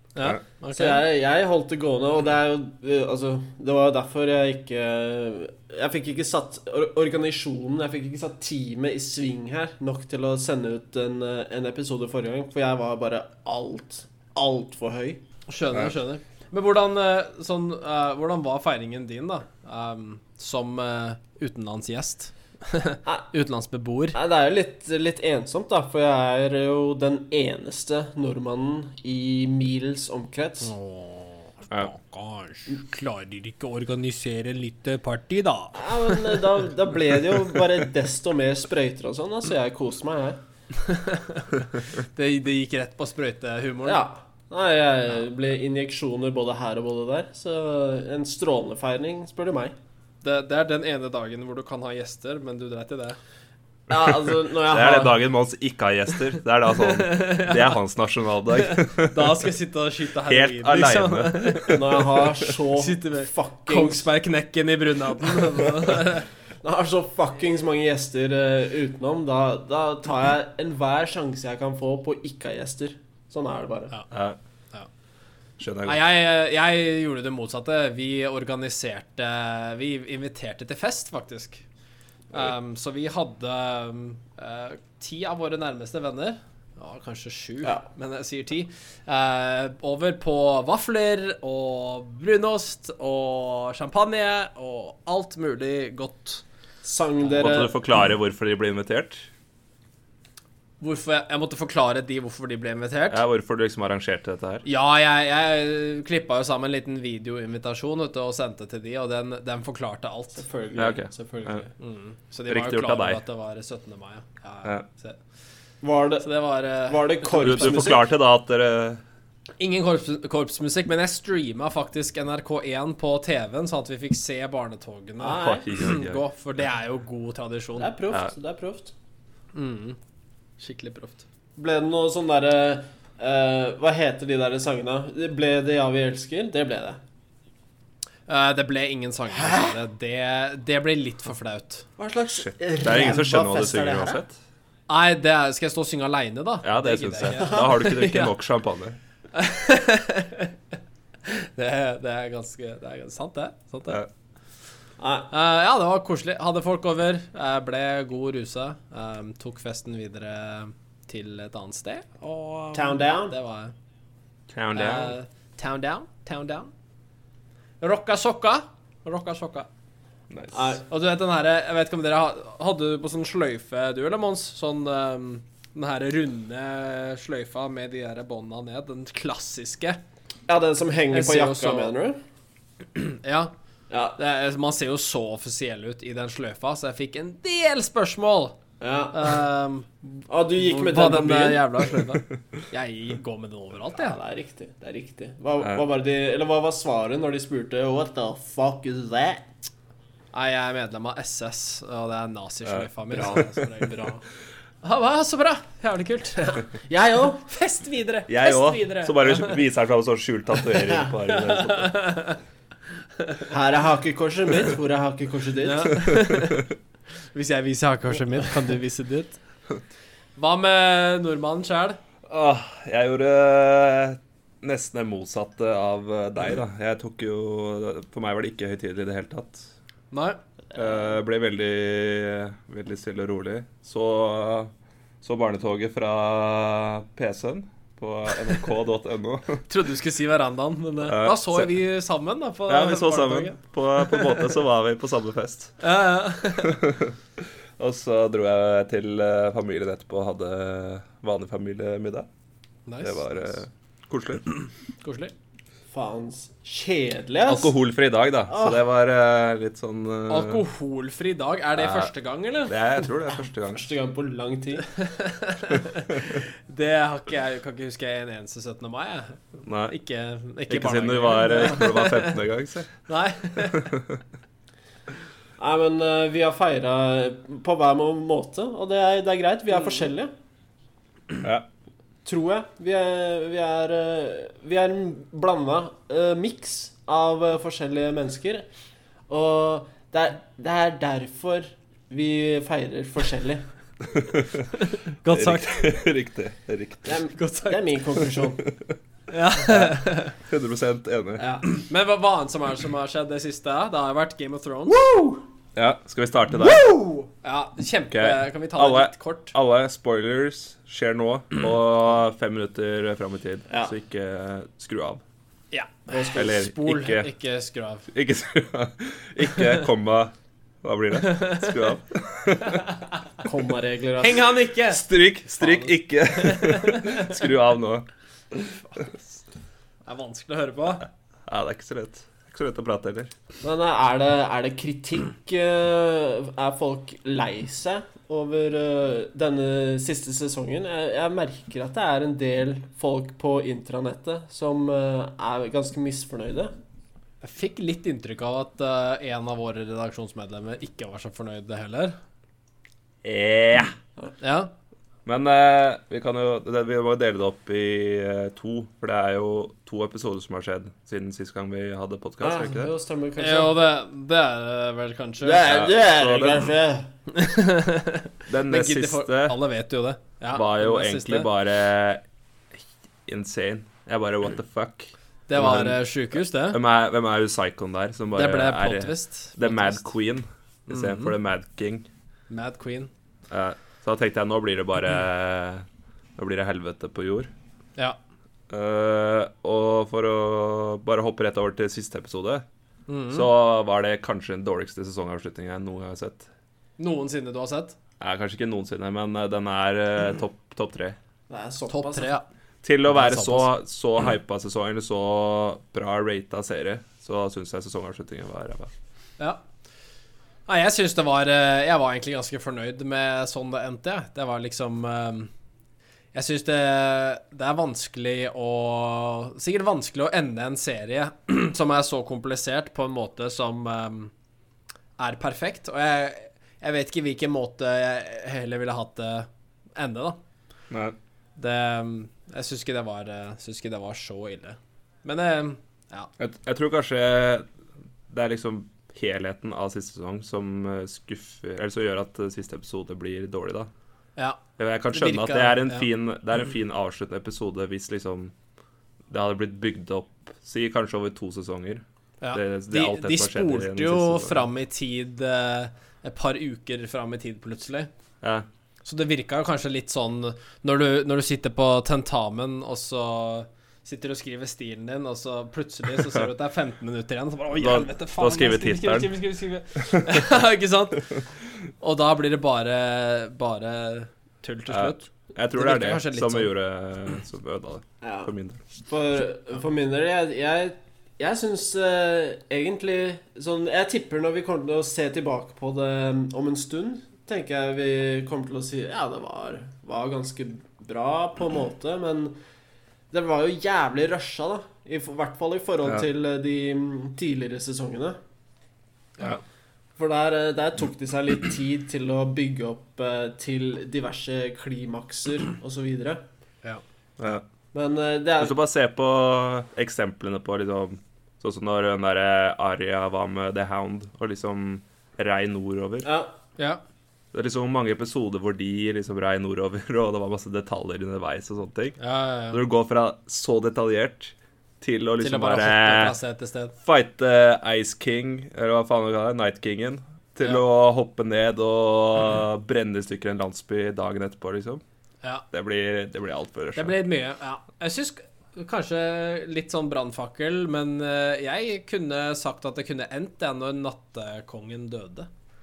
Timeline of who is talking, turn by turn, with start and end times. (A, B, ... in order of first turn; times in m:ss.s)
0:00.1-0:01.0 A
0:00.7-0:15.2 B
0:15.5-0:24.2 A
0:15.7-0:16.0 C
0:24.1-0:30.7 B
0:30.6-0:36.4 A
0:35.7-0:40.4 B
0:40.7-0:44.0 A
0:43.8-0:49.7 B
0:50.2-0:53.2 A
0:53.9-0:55.2 B
0:54.7-0:59.5 C
0:56.8-0:57.8 A
0:58.5-1:06.3 A
1:00.3-1:02.0 C
1:01.7-1:04.1 B
1:06.6-1:13.9 B
1:14.1-1:14.4 C
1:15.6-1:16.0 C
1:15.8-1:21.6 A
1:22.3-1:36.4 A
1:36.8-1:37.7 B
1:37.4-1:39.3 C
1:40.8-1:43.2 A
1:43.1-1:44.6 C
1:44.6-1:50.4 A
1:50.4-1:51.7 B
1:50.8-1:51.6 C
1:51.8-1:55.2 A
1:52.5-1:53.2 C
1:55.8-1:58.0 B
1:56.2-1:58.0 A
1:57.4-1:59.0 C
1:59.6-2:07.9 A
2:05.2-2:05.6 B
2:05.3-2:06.2 C
2:07.8-2:08.9 B
2:09.5-2:10.0 A
2:10.6-2:11.2 A
2:11.6-2:17.0 B
2:18.3-2:21.8 A
2:19.3-2:19.8 B
2:22.0-2:24.2 B
2:22.3-2:24.3 C
2:24.9-2:28.3 A
2:26.6-2:29.0 C
2:29.3-2:30.5 A
2:31.2-2:34.0 A
2:35.0-2:35.3 B
2:35.3-2:43.7 A
2:42.7-2:43.3 B
2:44.5-2:45.1 C
2:44.7-2:46.7 A
2:47.8-2:49.7 A
2:50.3-2:50.8 C
2:50.5-2:50.8 B
2:50.8-3:00.0 A
3:00.5-3:02.2 B
3:01.1-3:01.9 A
3:02.9-3:03.5 A
3:03.9-3:04.2 B
3:04.2-3:08.6 A
3:08.8-3:09.4 B
3:09.1-3:14.2 A
3:10.3-3:11.7 B
3:13.9-3:19.5 B
3:20.3-3:24.2 A
3:22.6-3:23.6 C
3:23.1-3:24.1 B
3:24.8-3:26.6 A
3:26.4-3:27.4 B
3:27.5-3:29.6 A
3:28.3-3:31.9 C
3:30.8-3:31.1 B
3:31.3-3:32.4 A
3:33.5-3:36.0 B
3:35.6-3:36.6 A
3:37.3-3:39.4 A
3:40.4-3:42.0 A
3:42.3-3:49.7 C
3:50.1-3:50.4 A
3:50.7-3:59.6 C
3:59.7-4:04.5 A
4:01.0-4:01.7 C
4:02.7-4:05.7 C
4:05.8-4:06.8 A
4:06.6-4:07.2 C
4:07.8-4:12.3 C
4:12.9-4:13.2 A
4:13.0-4:14.5 C
4:15.0-4:15.3 A
4:15.9-4:17.7 B
4:17.4-4:20.6 C
4:18.5-4:18.8 B
4:20.3-4:22.8 A
4:21.8-4:22.1 C
4:22.7-4:23.9 C
4:23.7-4:24.9 B
4:24.9-4:32.4 A
4:29.6-4:29.9 C
4:30.7-4:32.9 C
4:33.1-4:33.9 A
4:33.6-4:34.2 C
4:35.6-4:40.3 B
4:42.2-4:48.6 B
4:49.3-4:53.6 B
4:54.1-4:54.7 C
4:54.8-4:55.8 A
4:55.3-4:57.2 C
4:57.0-4:58.6 B
4:57.3-4:57.8 A
4:59.3-5:00.4 A
4:59.6-5:01.4 C
5:01.4-5:01.6 B
5:01.6-5:05.0 A
5:04.9-5:05.4 B
5:05.7-5:06.9 C
5:07.0-5:09.5 A
5:08.1-5:15.2 C
5:13.7-5:13.9 B
5:15.7-5:18.1 A
5:16.1-5:16.5 B
5:16.3-5:17.3 C
5:18.1-5:22.8 C
5:21.2-5:21.7 A
5:22.7-5:23.2 A
5:23.4-5:24.5 B
5:24.2-5:25.0 A
5:24.9-5:28.8 C
5:25.6-5:27.4 A
5:28.9-5:29.2 A
5:30.1-5:31.0 A
5:31.4-5:33.3 C
5:33.6-5:46.7 B
5:47.4-5:52.2 A
5:53.2-5:53.9 C
5:54.4-5:54.7 A
5:55.2-6:02.9 C
6:02.4-6:03.7 B
6:03.4-6:05.7 A
6:05.4-6:07.1 B
6:05.6-6:06.7 C
6:07.3-6:11.5 A
6:08.5-6:09.6 C
6:10.5-6:12.2 C
6:12.8-6:16.0 C
6:15.5-6:16.8 A
6:16.7-6:22.1 C
6:18.3-6:20.1 A
6:20.9-6:21.3 A
6:22.5-6:23.1 A
6:23.5-6:25.8 C
6:26.4-6:27.5 C
6:28.7-6:32.6 C
6:33.1-6:33.5 A
6:33.3-6:36.5 C
6:37.0-6:38.0 A
6:38.2-6:41.2 C
6:41.5-6:42.3 B
6:41.9-6:42.4 A
6:42.8-6:48.9 C
6:43.1-6:43.7 A
6:50.7-6:55.5 A
6:56.3-7:04.3 A
7:05.2-7:10.4 A
7:10.9-7:11.2 C
7:11.6-7:16.3 A
7:16.4-7:17.6 C
7:18.3-7:23.9 C
7:24.8-7:28.5 C
7:25.1-7:26.1 A
7:29.3-7:34.7 C
7:32.4-7:38.1 A
7:39.0-7:51.3 A
7:47.7-7:49.3 C
7:50.1-7:50.4 C
7:52.0-7:56.7 A
7:54.9-7:58.8 C
7:58.2-7:58.5 B
7:59.1-8:12.6 B
8:13.3-8:18.4 B
8:20.2-8:26.4 B
8:27.4-8:27.6 C
8:27.9-8:28.7 B
8:28.6-8:36.3 C
8:36.2-8:36.5 B
8:37.5-8:42.2 C
8:42.2-8:42.8 A
8:42.7-8:46.3 C
8:45.4-8:47.0 A
8:47.0-8:55.0 C
8:55.7-8:57.1 C
8:56.9-9:05.5 A